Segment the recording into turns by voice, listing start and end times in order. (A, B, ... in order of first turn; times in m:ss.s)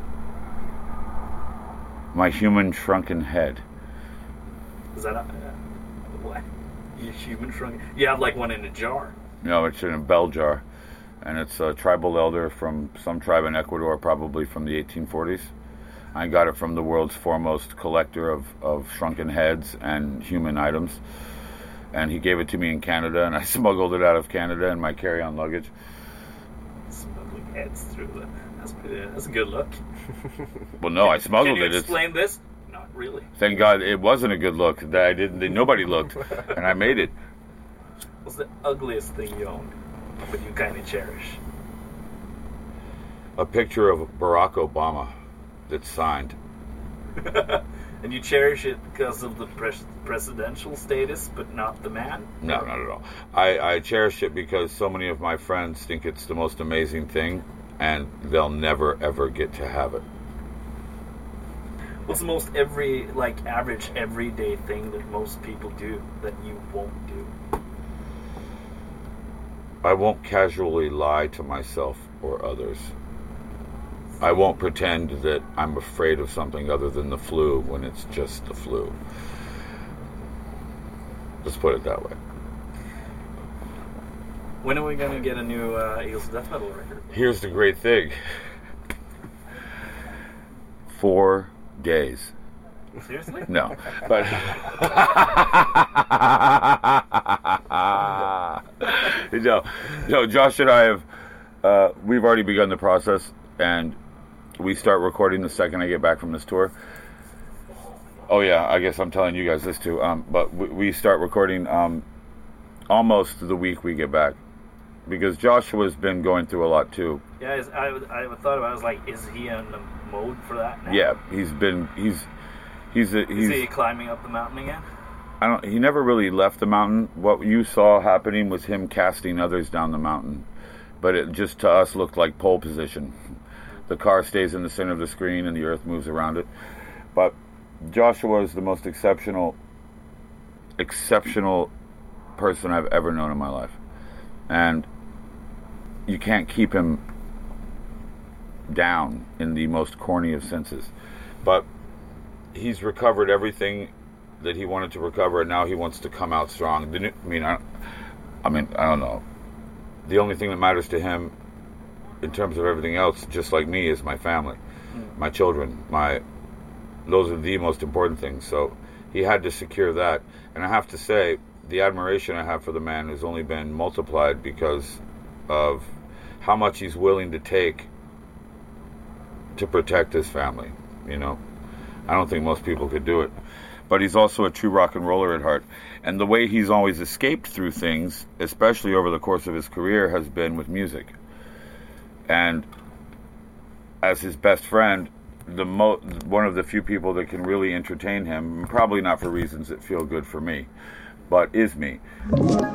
0:02.1-0:03.6 A
0:04.9-0:05.6 B
0:06.1-0:06.4 B
0:07.0-0:09.1 B
0:09.4-0:10.6 A
0:11.2-0:15.5 A
0:16.2-0:21.0 A
0:21.9-0:25.7 A
0:26.9-0:29.8 B
0:30.8-0:32.1 A
0:31.1-0:33.3 B
0:33.4-0:37.1 A
0:38.2-0:39.7 B
0:40.3-0:41.4 B
0:43.4-0:45.1 A
0:45.7-0:46.4 A
0:47.2-0:52.6 B
0:52.4-1:00.0 A
1:02.1-1:07.3 B
1:09.8-1:12.9 A
1:14.2-1:19.0 A
1:21.4-1:22.2 A
1:24.6-1:27.1 B
1:27.1-1:28.2 A
1:30.9-1:32.3 A
1:33.0-1:33.5 B
1:33.5-1:41.1 A
1:41.6-1:44.0 A
1:44.6-1:46.7 A
1:48.3-1:52.0 A
1:52.9-1:54.4 A
1:55.1-1:57.2 A
1:57.4-2:01.0 B
2:00.9-2:02.3 A
2:02.9-2:03.7 A
2:03.3-2:04.8 B
2:05.4-2:10.5 A
2:11.0-2:13.2 A
2:13.9-2:16.5 A
2:17.2-2:19.6 A
2:20.8-2:21.7 A
2:22.4-2:23.8 A
2:24.5-2:24.9 A
2:26.1-2:27.0 A
2:28.7-2:30.9 A
2:32.5-2:37.6 A
2:38.4-2:39.2 A
2:40.0-2:41.4 A
2:42.2-2:44.6 A
2:45.2-2:46.2 A
2:47.0-2:57.9 A
2:59.6-3:01.4 A
3:02.1-3:03.4 A
3:03.9-3:11.2 A
3:12.3-3:12.7 A
3:14.0-3:20.7 A
3:21.3-3:22.0 A